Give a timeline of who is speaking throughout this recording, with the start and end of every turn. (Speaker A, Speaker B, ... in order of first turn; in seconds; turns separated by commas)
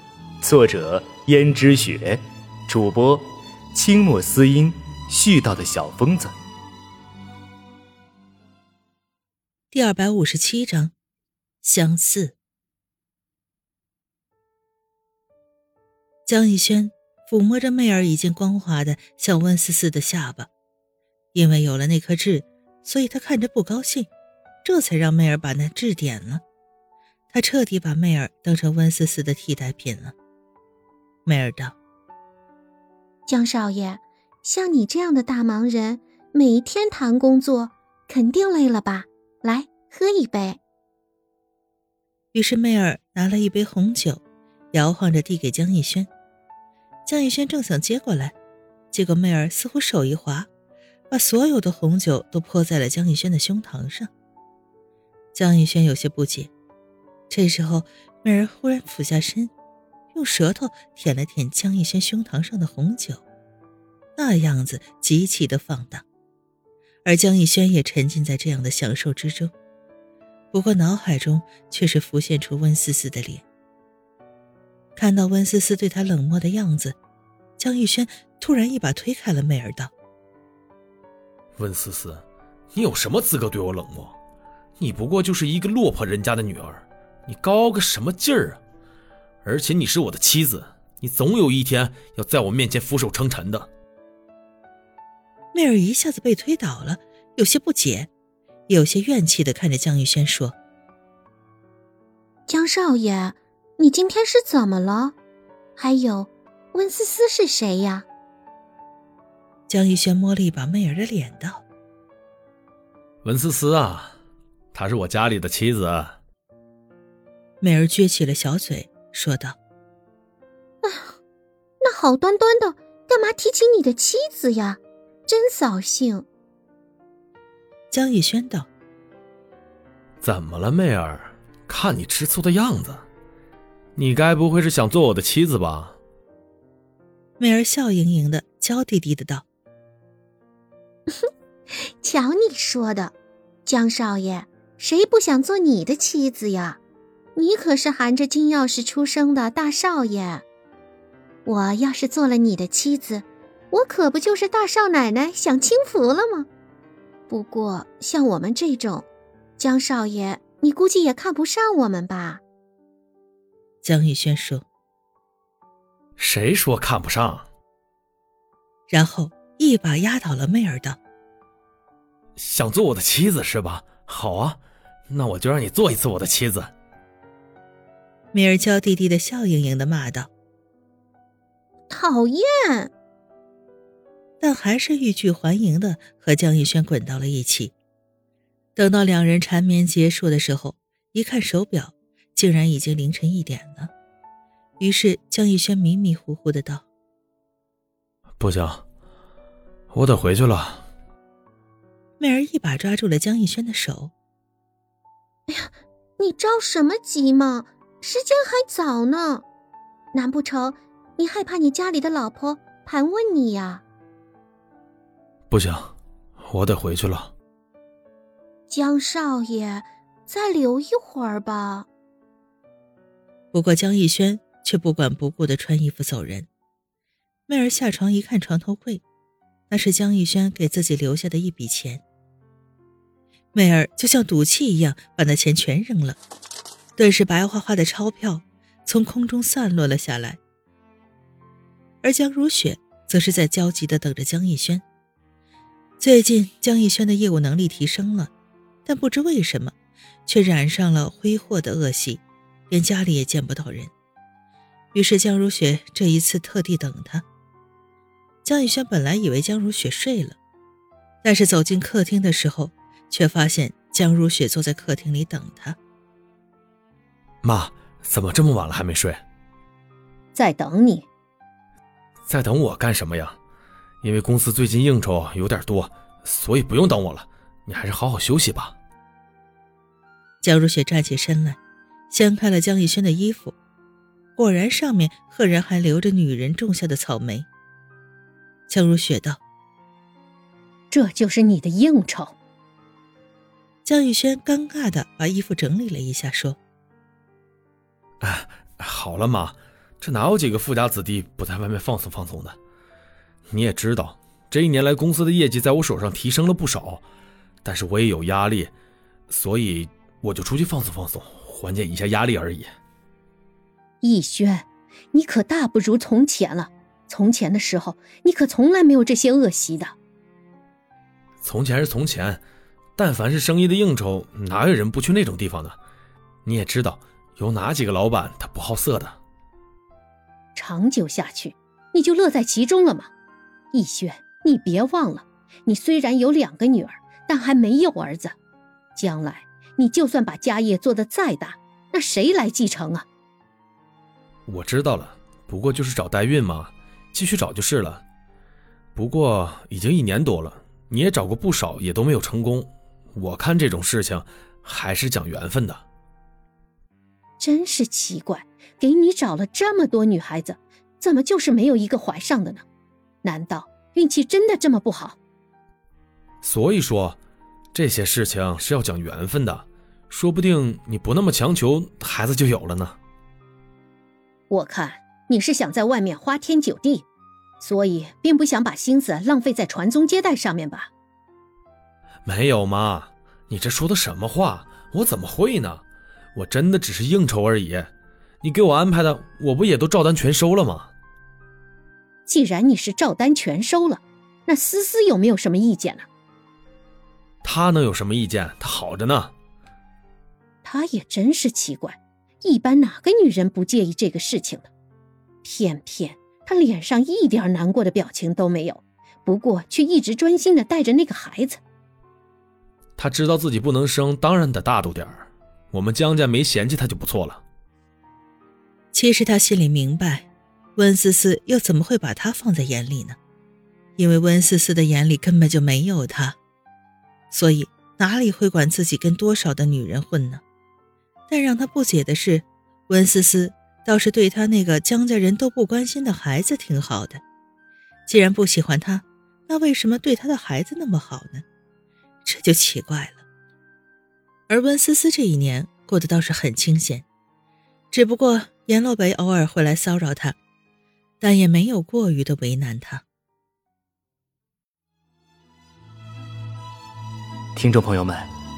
Speaker A: 0.4-6.4, Speaker B: 9.7-10.9, Speaker B: 11.6-12.3, Speaker B: 16.2-20.5, Speaker B: 21.3-24.1, Speaker B: 24.6-26.4, Speaker B: 27.3-30.1, Speaker B: 31.2-31.7, Speaker C: 33.3-40.6, Speaker B: 42.3-44.2, Speaker B: 44.7-46.1, Speaker B: 47.0-48.3, Speaker B: 48.9-50.5, Speaker B: 51.1-54.1, Speaker B: 55.3-56.5, Speaker B: 57.3-59.5, Speaker B: 60.1-63.2, Speaker B: 64.2-66.0, Speaker B: 67.0-69.5, Speaker B: 70.5-73.4, Speaker B: 75.0-77.0, Speaker B: 77.6-79.9, Speaker D: 81.6-84.2, Speaker D: 84.8-88.6, Speaker D: 89.4-93.7, Speaker B: 95.5-98.1, Speaker B: 98.7-100.5, Speaker C: 102.5-105.1, Speaker C: 105.8-108.0, Speaker B: 109.7-111.6, Speaker D: 113.2-114.2, Speaker D: 114.7-116.2, Speaker B: 117.6-119.5, Speaker C: 120.9-121.1, Speaker E: 121.8-124.0, Speaker C: 124.0-124.7, Speaker E: 125.3-126.2, Speaker C: 125.5-125.9, Speaker B: 127.9-128.7, Speaker D: 130.2-133.0, Speaker D: 133.9-136.0, Speaker B: 137.4-139.4, Speaker C: 142.0-143.1, Speaker C: 143.7-146.8, Speaker C: 147.5-150.4, Speaker C: 151.4-153.2, Speaker E: 153.7-154.6, Speaker C: 153.9-156.1, Speaker E: 156.1-156.4, Speaker C: 157.3-159.0, Speaker E: 157.3-158.8, Speaker C: 159.6-162.4, Speaker E: 160.4-162.3, Speaker B: 163.8-164.6, Speaker D: 166.2-167.5, Speaker B: 168.9-171.0, Speaker D: 172.4-176.7, Speaker B: 178.3-180.3, Speaker C: 181.9-182.9, Speaker B: 184.4-187.7, Speaker B: 188.8-193.9, Speaker B: 194.8-196.8, Speaker D: 198.4-198.8, Speaker D: 199.9-200.8, Speaker B: 202.2-204.1, Speaker C: 205.5-209.4, Speaker C: 210.1-213.8, Speaker D: 215.5-217.3, Speaker C: 218.7-221.9, Speaker B: 223.5-226.5, Speaker B: 227.5-229.0, Speaker B: 229.7-232.0, Speaker B: 233.5-236.2, Speaker B: 237.0-240.4, Speaker B: 242.0-244.8, Speaker B: 246.0-248.3, Speaker B: 248.8-249.7, Speaker B: 250.2-253.9, Speaker B: 254.9-257.2, Speaker B: 258.4-260.4, Speaker B: 261.2-265.8, Speaker D: 267.4-269.2, Speaker E: 270.3-271.1, Speaker D: 272.2-273.4, Speaker D: 274.0-278.8, Speaker B: 280.4-281.6, Speaker B: 282.1-283.5, Speaker B: 284.4-287.5, Speaker B: 288.7-289.4, Speaker E: 290.9-292.3, Speaker B: 293.8-296.6, Speaker D: 298.2-302.6, Speaker D: 303.5-307.0, Speaker D: 307.6-308.7, Speaker D: 309.3-312.7, Speaker E: 314.0-319.9, Speaker D: 321.4-322.4, Speaker D: 323.0-325.8, Speaker D: 326.4-329.2, Speaker E: 330.5-333.1, Speaker E: 333.7-338.3, Speaker E: 338.9-343.0, Speaker D: 344.5-348.0, Speaker D: 348.9-355.8, Speaker E: 357.4-362.6, Speaker E: 363.2-365.2, Speaker D: 366.4-367.2, Speaker D: 367.7-373.0, Speaker E: 374.5-377.0, Speaker E: 377.6-380.9, Speaker D: 382.2-385.8, Speaker D: 386.3-387.9, Speaker D: 388.4-390.9, Speaker E: 392.3-396.1, Speaker D: 397.4-399.3, Speaker E: 400.6-404.7, Speaker E: 405.4-411.6, Speaker D: 413.0-417.4, Speaker B: 418.9-423.2, Speaker B: 424.0-426.4, Speaker B: 427.3-430.4, Speaker B: 431.3-437.2, Speaker B: 438.1-441.4, Speaker B: 442.2-443.2, Speaker B: 444.5-447.1, Speaker B: 447.9-450.4, Speaker B: 451.2-453.0, Speaker A: 457.5-458.3